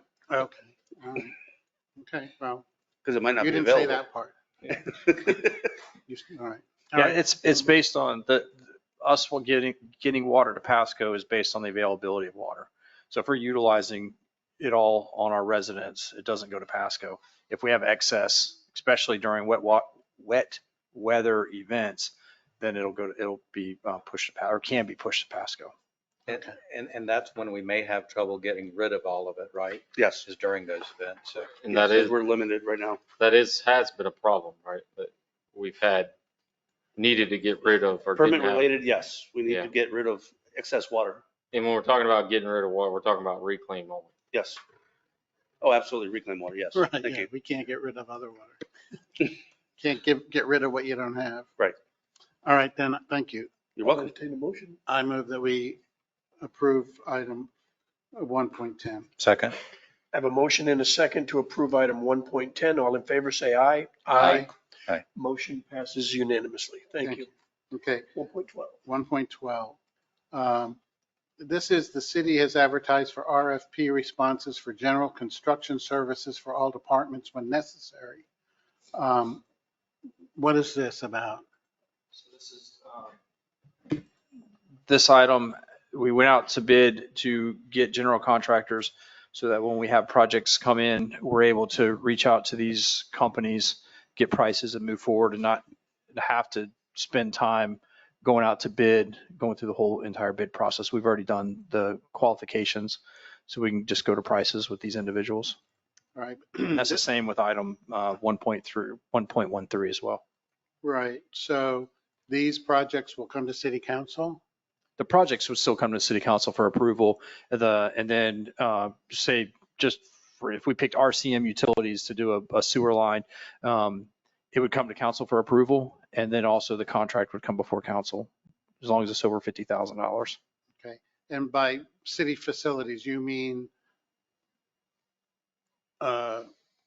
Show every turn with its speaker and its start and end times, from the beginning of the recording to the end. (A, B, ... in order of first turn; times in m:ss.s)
0:00.3-0:01.3 A
0:02.0-0:02.6 A
0:03.0-0:04.0 B
0:03.4-0:04.8 A
0:05.0-0:05.5 B
0:06.1-0:07.4 A
0:07.0-0:25.7 C
0:26.3-0:31.5 D
0:31.6-0:32.2 E
0:31.7-0:33.0 B
0:33.2-0:36.1 E
0:37.0-0:38.7 E
0:38.2-0:41.2 B
0:41.5-0:44.1 E
0:44.3-0:44.6 B
0:45.6-0:47.3 B
0:46.7-0:48.6 A
0:49.8-0:51.5 A
0:52.4-0:53.5 A
0:53.8-0:54.1 B
0:53.8-0:54.8 F
0:54.9-0:55.8 A
0:56.4-0:57.5 A
0:58.2-0:59.1 A
0:59.2-0:59.6 D
1:00.1-1:04.5 F
1:04.2-1:04.5 A
1:05.2-1:07.3 F
1:07.0-1:08.1 A
1:08.2-1:08.8 F
1:08.8-1:09.8 A
1:10.3-1:10.8 A
1:11.4-1:18.2 A
1:18.9-1:19.4 A
1:20.4-1:21.4 A
1:22.2-1:23.1 C
1:24.9-1:45.6 C
1:46.2-1:47.0 A
1:46.7-1:50.2 C
1:50.8-1:54.4 A
1:55.0-2:08.3 C
2:08.8-2:10.4 C
2:10.8-2:13.7 A
2:16.0-2:16.5 A